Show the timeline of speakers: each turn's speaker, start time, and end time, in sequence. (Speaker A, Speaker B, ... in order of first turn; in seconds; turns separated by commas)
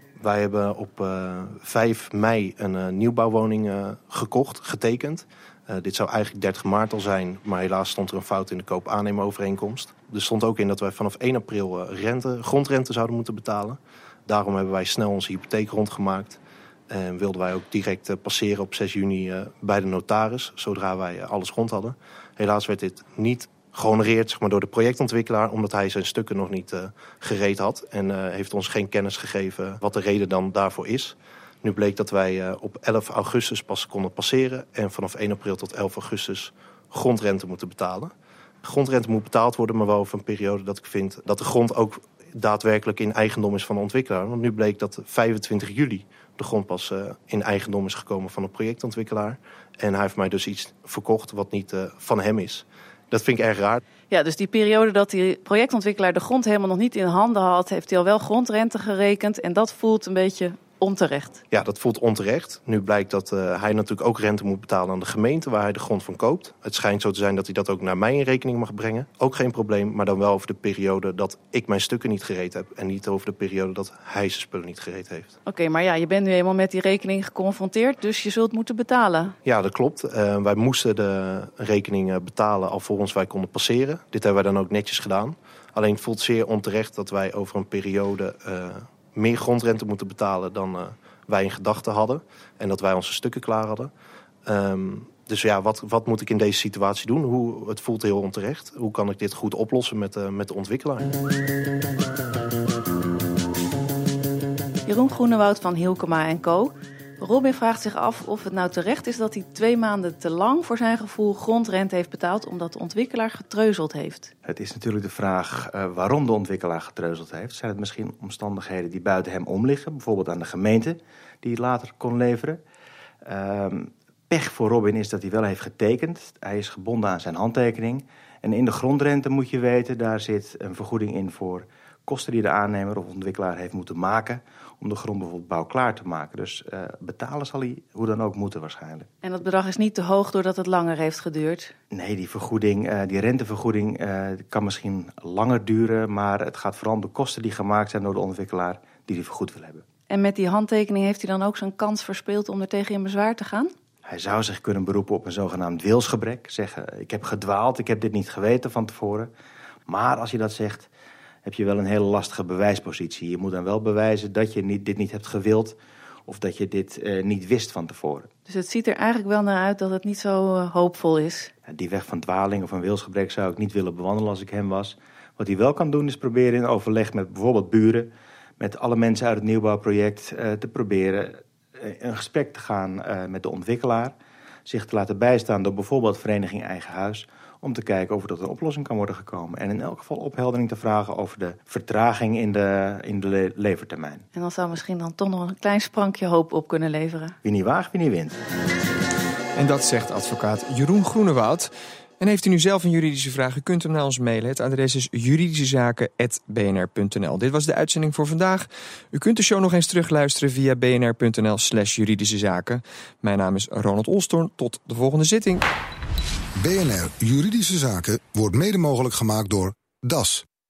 Speaker A: 0.2-53.8, Speaker B: 54.1-61.4, Speaker A: 61.5-75.3, Speaker B: 75.5-79.3, Speaker A: 79.4-93.9, Speaker A: 94.5-101.1, Speaker B: 104.9-114.3, Speaker C: 114.4-122.6, Speaker C: 123.2-139.1, Speaker B: 139.2-141.7, Speaker C: 141.9-149.8, Speaker B: 150.1-153.7, Speaker C: 154.1-159.3, Speaker C: 159.9-160.9, Speaker C: 161.4-168.3, Speaker B: 168.5-171.5, Speaker C: 171.7-194.2, Speaker B: 194.3-197.3, Speaker C: 197.4-198.4, Speaker D: 199.6-215.7, Speaker E: 216.6-220.4